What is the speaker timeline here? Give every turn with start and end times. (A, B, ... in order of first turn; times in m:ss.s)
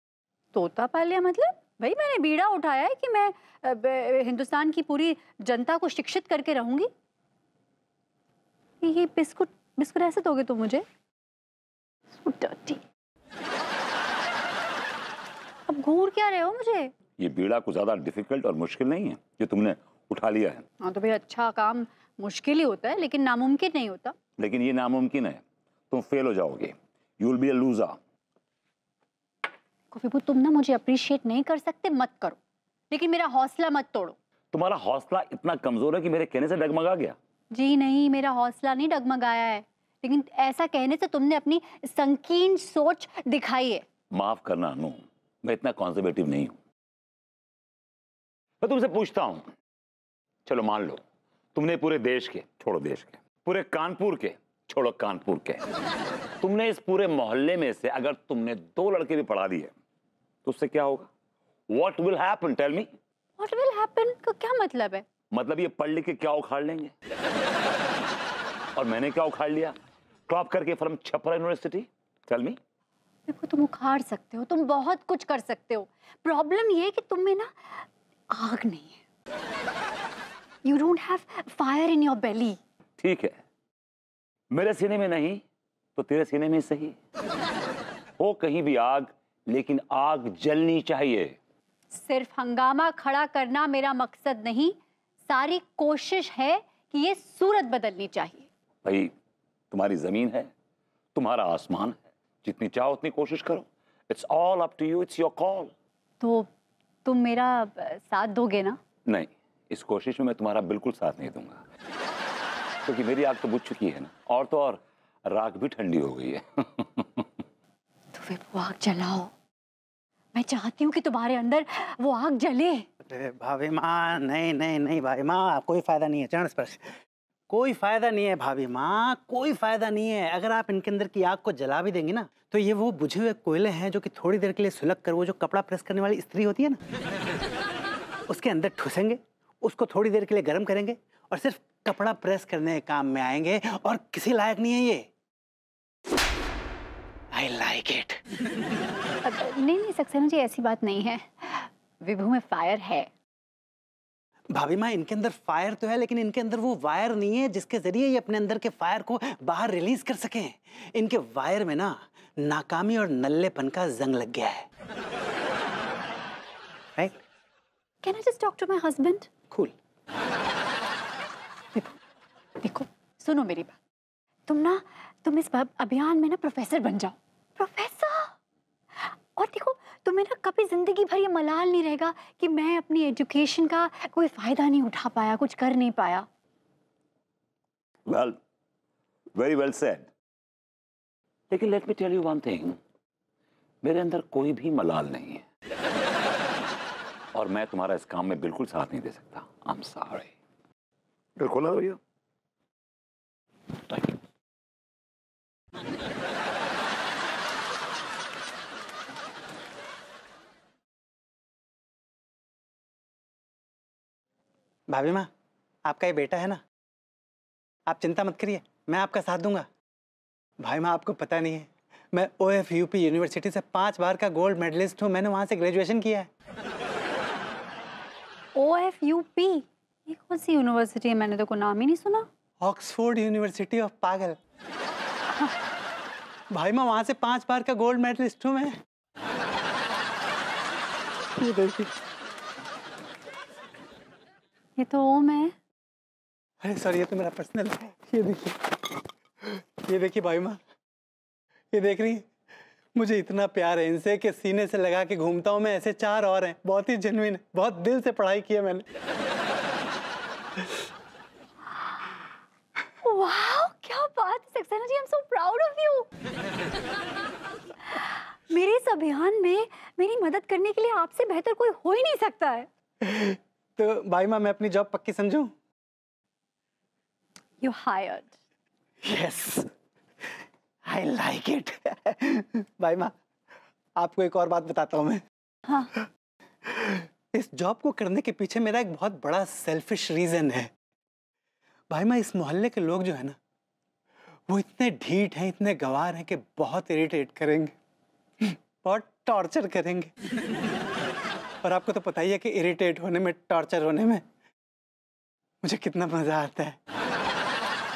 0:00.5-0:06.9 A
0:08.8-0:10.8 A
0:12.2-0:12.8 A
0:15.7-0:16.9 A
0:17.2-0:20.6 B
0:20.8-0:24.1 A
0:24.4-0:28.0 B
0:29.9-0:32.4 A
0:32.9-0:34.1 A
0:34.5-0:37.1 B
0:37.5-0:43.8 A
0:44.1-0:46.6 B
0:48.6-0:49.4 B
0:50.4-0:51.0 B
0:51.5-0:55.6 B
0:56.4-0:59.7 B
1:00.4-1:01.1 B
1:01.7-1:02.9 B
1:03.4-1:05.0 A
1:05.3-1:06.9 B
1:08.8-1:09.8 B
1:10.3-1:12.6 B
1:13.3-1:19.0 A
1:20.6-1:22.6 A
1:23.0-1:23.4 B
1:24.5-1:25.4 B
1:26.0-1:27.0 B
1:28.2-1:31.4 B
1:31.9-1:34.8 A
1:35.3-1:38.5 A
1:38.8-1:39.1 B
1:39.7-1:40.5 B
1:41.1-1:45.7 B
1:46.2-1:46.5 A
1:47.0-1:48.8 A
1:49.1-1:51.6 B
1:52.9-1:57.3 B
1:58.1-1:59.3 A
2:00.3-2:02.8 A
2:03.0-2:06.8 C
2:07.5-2:16.8 C
2:18.3-2:25.0 C
2:27.3-2:28.2 C
2:29.2-2:33.1 A
2:34.5-2:44.6 C
2:48.0-2:49.3 A
2:52.6-2:53.8 A
2:54.5-2:58.3 A
2:59.0-3:06.2 A
3:08.1-3:08.4 B
3:09.4-3:10.1 B
3:11.5-3:12.8 B
3:13.8-3:15.4 B
3:17.3-3:20.3 B
3:21.4-3:22.0 B
3:34.9-3:35.3 C
3:35.8-3:36.6 C
3:37.9-3:39.7 C
3:40.6-3:46.3 C
3:48.5-3:52.2 A
3:52.6-3:54.4 C
3:56.5-3:58.8 C
4:01.4-4:01.7 A
4:04.8-4:05.5 A
4:06.6-4:08.6 C
4:09.9-4:10.6 C
4:11.7-4:12.2 C
4:13.0-4:18.8 C
4:23.0-4:26.1 A
4:27.9-4:32.7 A
4:33.0-4:35.5 C
4:37.6-4:38.3 A
4:39.0-4:39.7 C
4:40.9-4:43.1 C
4:44.0-4:45.2 C
4:46.8-4:50.7 C
4:51.9-4:53.4 C
4:54.5-4:57.7 C
4:58.8-5:00.1 C
5:01.6-5:04.2 C
5:05.6-5:06.8 C